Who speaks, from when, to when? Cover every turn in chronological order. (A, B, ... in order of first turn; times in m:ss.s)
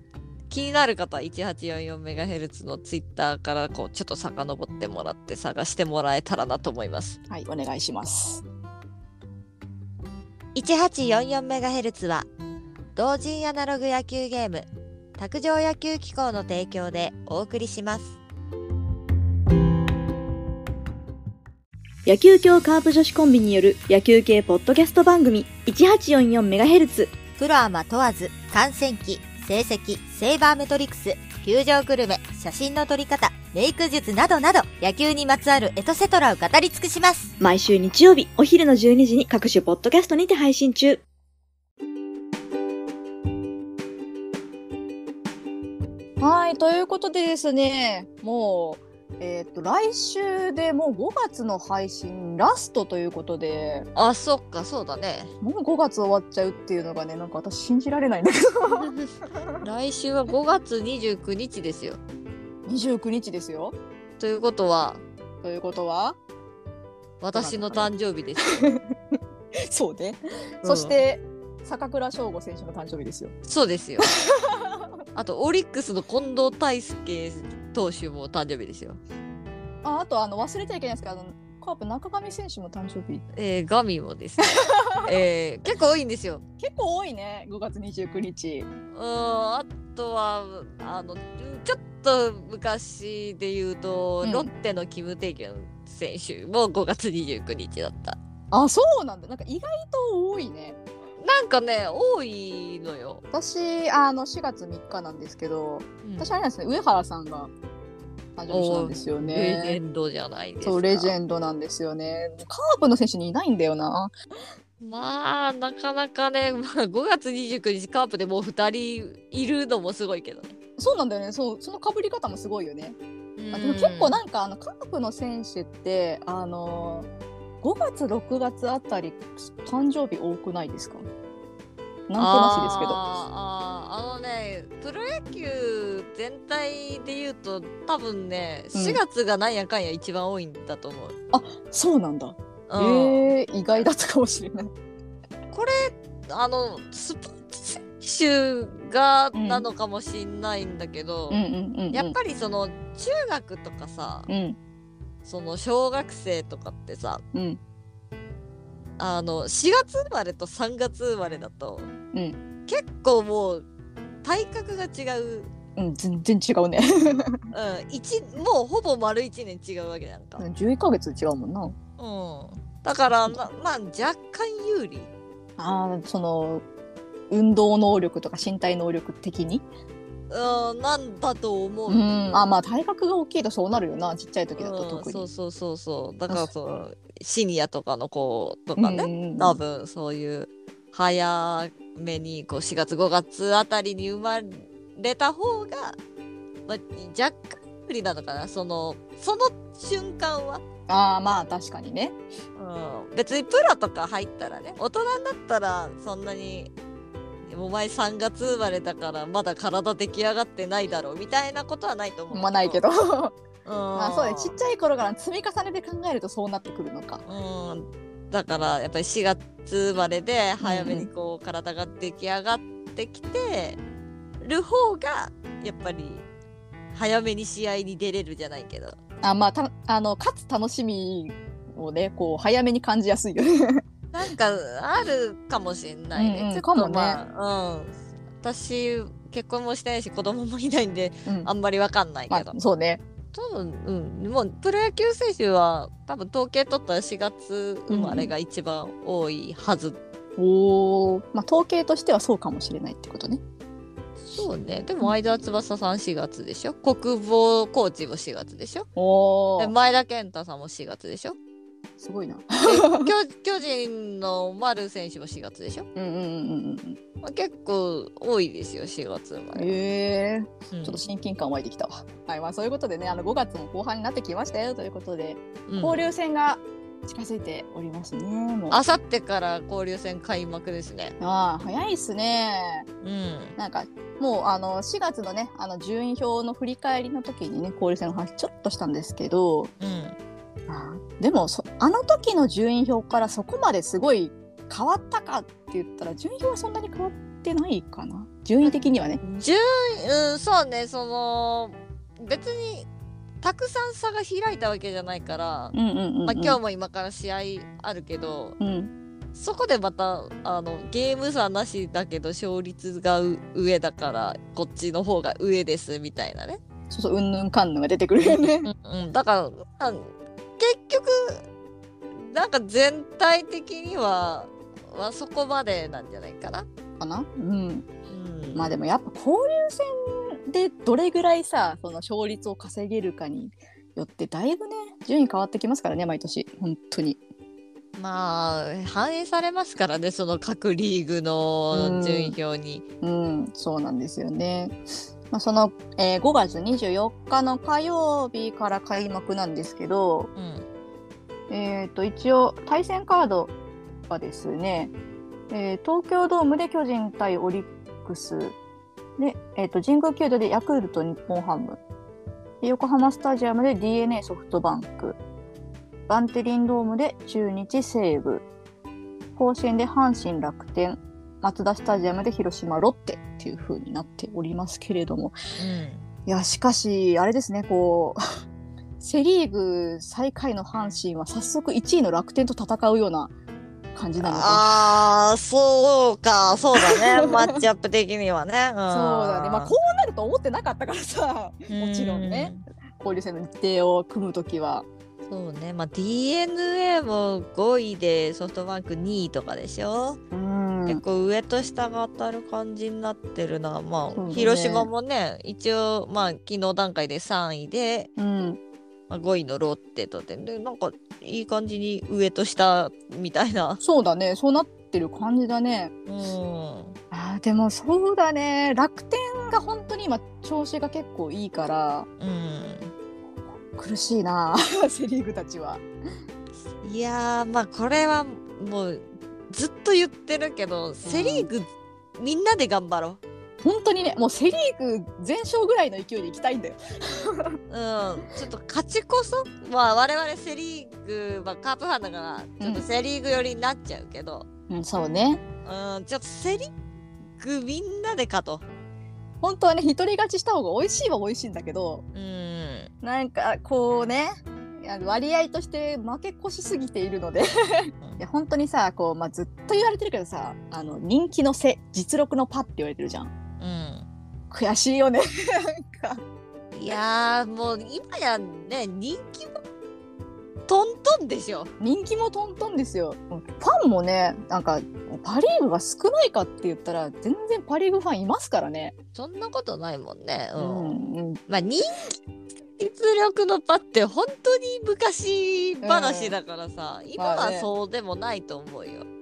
0:00.5-0:07.2 A
0:07.3-0:08.4 B
0:10.6-0:12.3 A
0:13.0-0:14.7 A
0:15.2-0:18.2 A
0:22.1-0:27.2 C
0:27.4-0:37.3 D
0:37.4-0:41.0 C
0:46.2-0:53.9 B
0:54.0-0:55.3 A
0:55.4-0:59.6 B
0:58.7-1:02.0 A
1:02.7-1:03.8 B
1:04.2-1:05.0 A
1:05.4-1:06.2 B
1:07.2-1:08.6 A
1:07.3-1:13.3 B
1:10.6-1:11.0 A
1:13.4-1:14.1 A
1:14.2-1:14.9 B
1:15.2-1:19.0 A
1:19.8-1:23.2 B
1:23.3-1:26.4 A
1:24.6-1:25.2 B
1:26.6-1:28.7 B
1:28.9-1:38.2 A
1:34.2-1:34.5 B
1:38.5-1:40.8 B
1:41.2-1:43.2 A
1:43.3-1:47.5 B
1:46.0-1:46.3 A
1:48.4-1:49.8 B
1:48.5-1:51.2 A
1:50.6-1:54.1 B
1:54.8-2:00.6 A
2:00.8-2:03.0 B
2:03.4-2:04.2 A
2:03.5-2:07.1 B
2:07.6-2:11.0 B
2:12.1-2:13.0 B
2:12.2-2:21.2 A
2:18.7-2:19.0 B
2:21.3-2:24.7 B
2:22.7-2:23.3 A
2:25.5-2:31.4 A
2:29.3-2:29.7 B
2:31.3-2:32.2 B
2:31.9-2:34.3 A
2:34.3-2:34.6 B
2:35.2-2:37.2 A
2:37.3-2:37.6 B
2:39.0-2:41.9 A
2:42.7-2:43.7 A
2:44.2-2:45.5 A
2:45.8-2:47.4 B
2:47.5-2:50.4 A
2:50.4-2:51.8 B
2:52.0-2:55.1 A
2:55.6-2:56.6 B
2:57.3-2:59.6 B
3:00.3-3:02.5 A
3:01.9-3:05.3 B
3:04.6-3:16.0 A
3:08.8-3:09.6 B
3:16.7-3:20.6 A
3:20.9-3:22.2 B
3:22.6-3:26.7 A
3:27.5-3:32.8 A
3:32.3-3:33.4 B
3:33.6-3:34.5 A
3:34.0-3:37.2 B
3:37.3-3:43.8 A
3:40.6-3:41.1 B
3:44.4-3:46.2 A
3:46.9-3:49.0 A
3:49.2-3:53.8 B
3:54.1-4:02.6 A
3:56.2-3:57.2 B
4:02.3-4:03.0 B
4:03.3-4:10.0 A
4:07.9-4:08.3 B
4:10.4-4:13.4 B
4:14.2-4:18.9 A
4:19.0-4:19.7 B
4:19.6-4:21.4 A
4:22.0-4:23.1 B
4:22.6-4:25.9 A
4:26.0-4:27.0 B
4:27.2-4:29.7 A
4:29.5-4:38.8 B
4:30.7-4:31.0 A
4:35.7-4:36.0 A
4:38.7-4:41.2 A
4:41.2-4:42.9 B
4:43.0-4:43.6 A
4:43.6-4:49.7 B
4:49.8-4:50.2 A
4:50.7-4:59.2 B
4:58.7-5:02.9 A
5:03.4-5:05.8 A
5:05.7-5:06.6 B
5:06.3-5:08.6 A
5:08.6-5:08.9 B
5:09.4-5:16.6 A
5:16.9-5:18.7 B
5:18.2-5:21.4 A
5:22.1-5:26.7 A
5:27.0-5:27.9 B
5:28.1-5:28.7 A
5:28.5-5:37.2 B
5:38.0-5:42.8 A
5:41.7-5:42.4 B
5:43.0-5:44.8 B
5:45.3-5:50.3 B
5:50.4-5:50.7 A
5:51.5-5:53.5 B
5:54.1-5:54.9 B
5:55.5-5:58.6 B
5:59.2-6:01.8 B
6:02.6-6:05.2 B
6:06.1-6:08.4 B
6:09.4-6:15.4 B
6:15.6-6:16.1 A
6:16.3-6:18.2 B
6:19.0-6:23.3 B
6:24.0-6:24.8 B
6:24.2-6:29.8 A
6:26.8-6:27.5 B
6:28.9-6:34.9 B
6:31.7-6:32.6 A
6:35.3-6:40.2 A
6:40.3-6:41.0 B
6:40.9-6:48.1 A
6:44.1-6:44.9 B
6:48.2-6:48.6 B
6:49.1-6:53.8 A
6:53.8-6:55.9 B
6:56.1-6:57.0 A
6:57.1-7:02.1 B
7:02.2-7:02.9 A
7:03.8-7:05.8 B
7:06.8-7:13.2 A
7:11.0-7:11.5 B
7:13.6-7:17.6 B
7:17.7-7:24.5 A
7:22.6-7:22.8 B
7:24.7-7:25.4 B
7:25.6-7:26.7 A
7:27.4-7:28.6 A
7:29.4-7:32.0 B
7:32.1-7:32.9 A
7:33.0-7:43.3 B
7:43.6-7:44.1 A
7:44.5-7:46.2 B
7:46.7-7:49.6 A
7:50.7-7:51.7 A
7:51.8-7:58.9 B
7:59.2-8:02.1 A
8:00.6-8:01.4 B
8:02.8-8:09.1 A
8:05.8-8:06.4 B
8:07.2-8:07.7 B